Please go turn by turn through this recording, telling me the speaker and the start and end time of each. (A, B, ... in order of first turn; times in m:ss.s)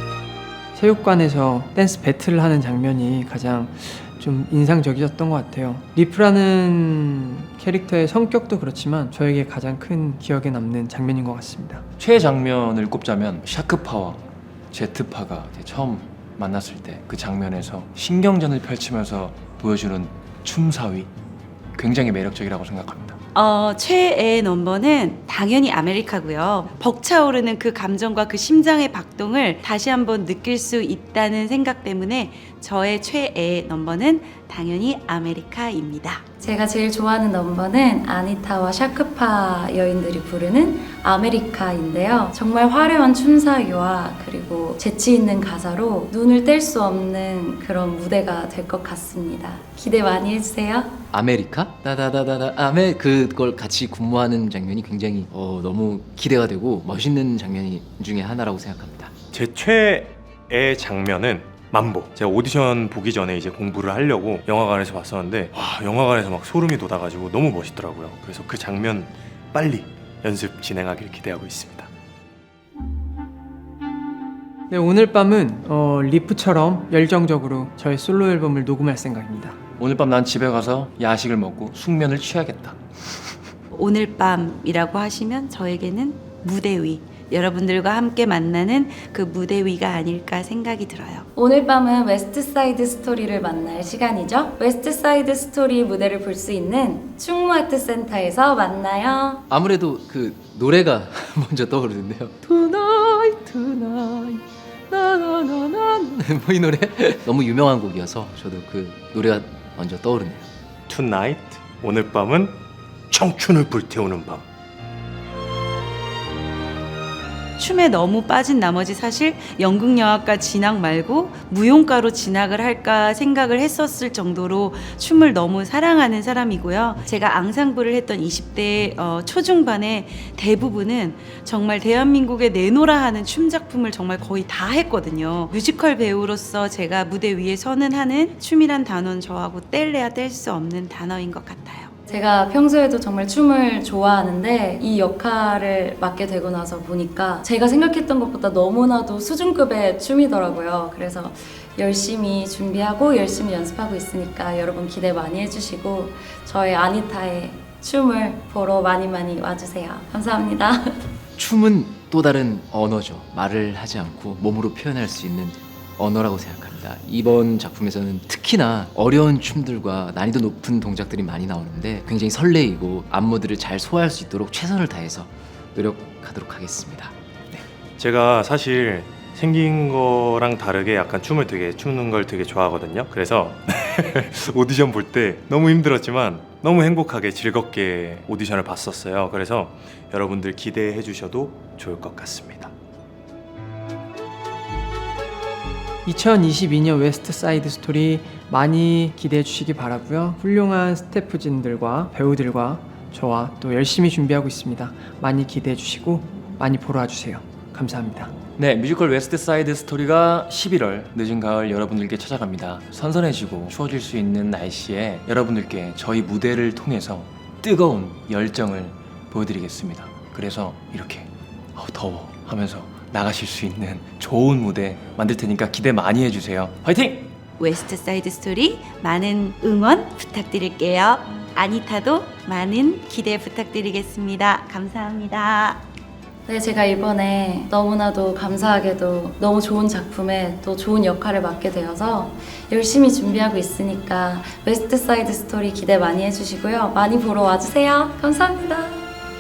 0:00.8-0:11.8 A
0:12.0-0:21.1 B
0:21.8-0:23.2 B
0:23.4-0:36.2 C
0:25.0-0:25.3 D
0:26.6-0:26.9 D
0:27.9-0:28.8 D
0:29.4-0:33.6 D
0:34.2-0:36.0 D
0:36.4-0:50.9 E
0:51.1-0:59.1 F
0:59.3-1:11.9 C
1:14.7-1:19.6 A
1:19.8-1:22.8 B
1:23.7-1:31.2 C
1:23.9-1:27.1 D
1:27.9-1:31.2 D
1:31.4-1:39.4 E
1:39.5-1:50.5 F
1:50.9-1:54.4 C
1:57.6-2:21.6 D
1:57.8-2:21.9 C
2:22.1-2:41.0 E
2:41.4-2:57.6 F
2:58.0-3:12.7 C
3:16.1-3:28.3 A
3:28.7-3:47.4 B
3:47.6-3:55.4 D
3:47.6-3:55.8 C
3:56.5-4:09.0 E